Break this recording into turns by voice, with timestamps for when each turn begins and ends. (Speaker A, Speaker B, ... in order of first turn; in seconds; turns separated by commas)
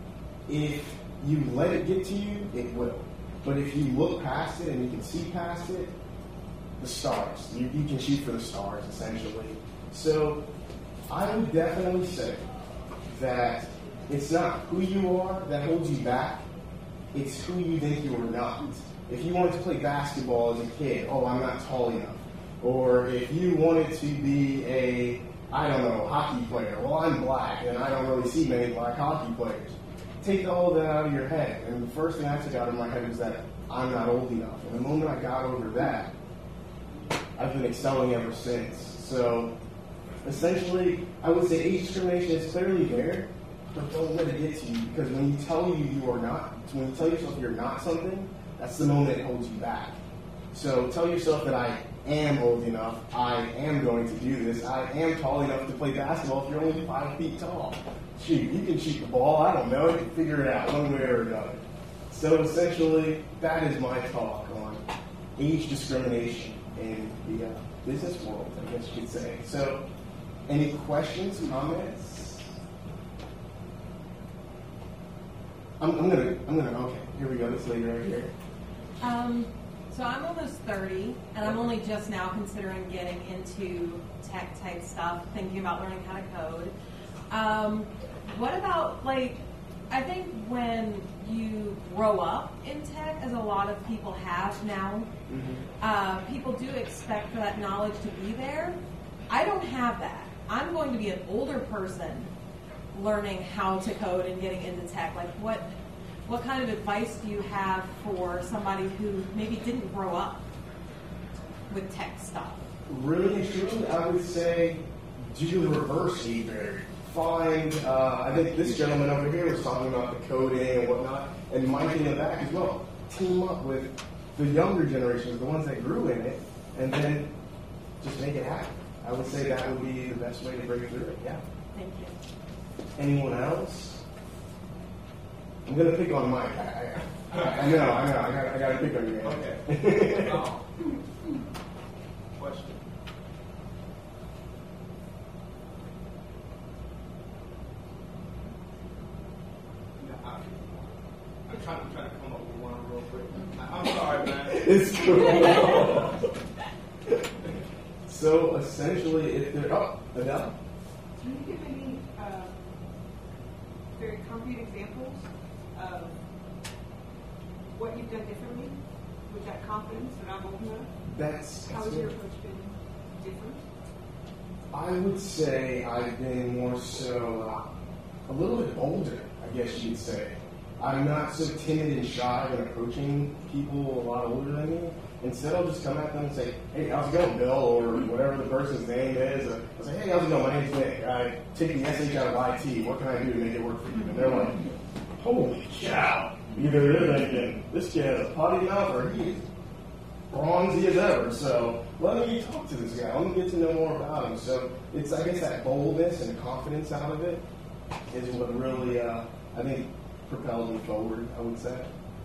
Speaker A: 0.5-6.0, Speaker A: 6.8-10.5, Speaker A: 11.1-12.4, Speaker A: 13.1-16.4, Speaker A: 17.1-36.1, Speaker A: 37.4-39.6, Speaker A: 40.2-50.0, Speaker A: 50.5-64.8, Speaker A: 65.4-69.9, Speaker A: 70.5-72.5, Speaker A: 75.8-78.3, Speaker B: 79.0-86.8, Speaker B: 87.3-95.1, Speaker A: 95.3-95.7, Speaker B: 95.8-98.8, Speaker B: 99.3-102.3, Speaker B: 102.9-110.5, Speaker B: 111.7-112.7, Speaker A: 112.9-127.3, Speaker A: 128.0-131.4, Speaker B: 131.7-132.2, Speaker A: 133.0-134.0, Speaker A: 135.7-140.4, Speaker C: 139.2-140.7, Speaker C: 142.4-142.9, Speaker C: 150.0-150.9, Speaker C: 151.5-154.7, Speaker A: 154.4-156.3, Speaker A: 158.1-160.6, Speaker D: 161.2-162.7, Speaker D: 163.9-166.2, Speaker D: 167.7-170.9, Speaker A: 171.1-172.1, Speaker D: 171.7-173.7, Speaker A: 174.7-177.7, Speaker A: 178.3-194.6, Speaker A: 195.2-199.5, Speaker A: 200.3-207.4, Speaker A: 208.1-211.9